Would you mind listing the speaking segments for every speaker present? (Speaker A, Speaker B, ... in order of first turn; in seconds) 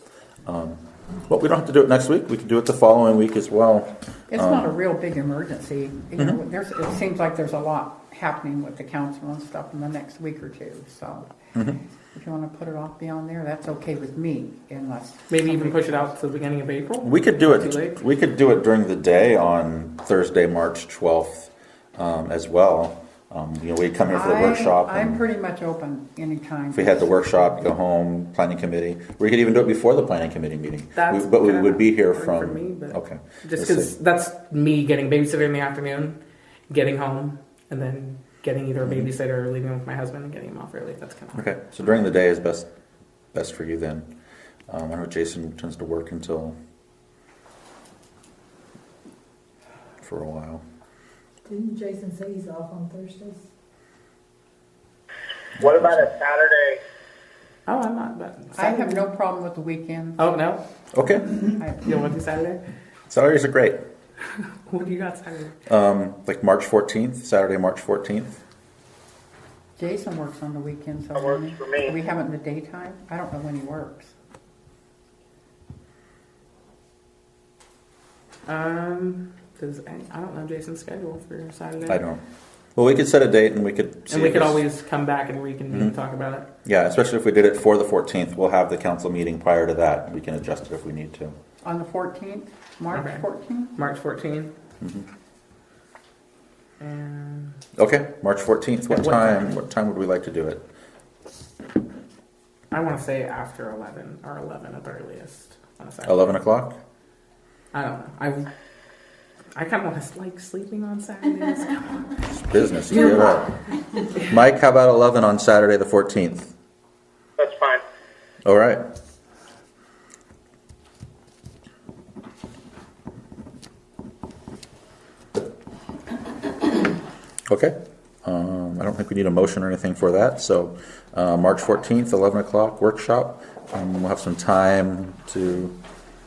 Speaker A: 0.5-4.7, 11.5-11.8, 17.0-25.2, 26.7-33.9, 41.3-42.7, 43.3-44.1, 44.7-46.5, 50.0-50.6, 55.6-56.1, 60.9-61.5, 63.1-63.8, 65.7-68.4, 81.8-82.2, 82.8-84.6, 85.7-86.0, 86.6-91.3, 94.8-95.0, 97.8-100.6, 106.0-106.7, 112.3-113.5, 114.1-116.5, 118.4-118.8, 127.5-135.7
Speaker B: 4.3-11.3, 12.1-16.1, 24.1-27.6, 58.5-60.2, 61.4-61.9, 69.8-74.1, 91.6-93.7
Speaker C: 15.3-18.0, 30.9-36.2, 36.7-41.5, 57.7-59.0, 60.2-60.6, 61.8-62.6, 64.6-65.5, 78.5-82.0, 84.1-86.5, 92.9-94.5, 96.8-97.6, 98.9-99.6, 102.7-106.4, 107.7-108.5, 109.5-112.2
Speaker D: 51.4-53.4
Speaker E: 55.6-56.8, 71.2-71.9, 117.4-117.8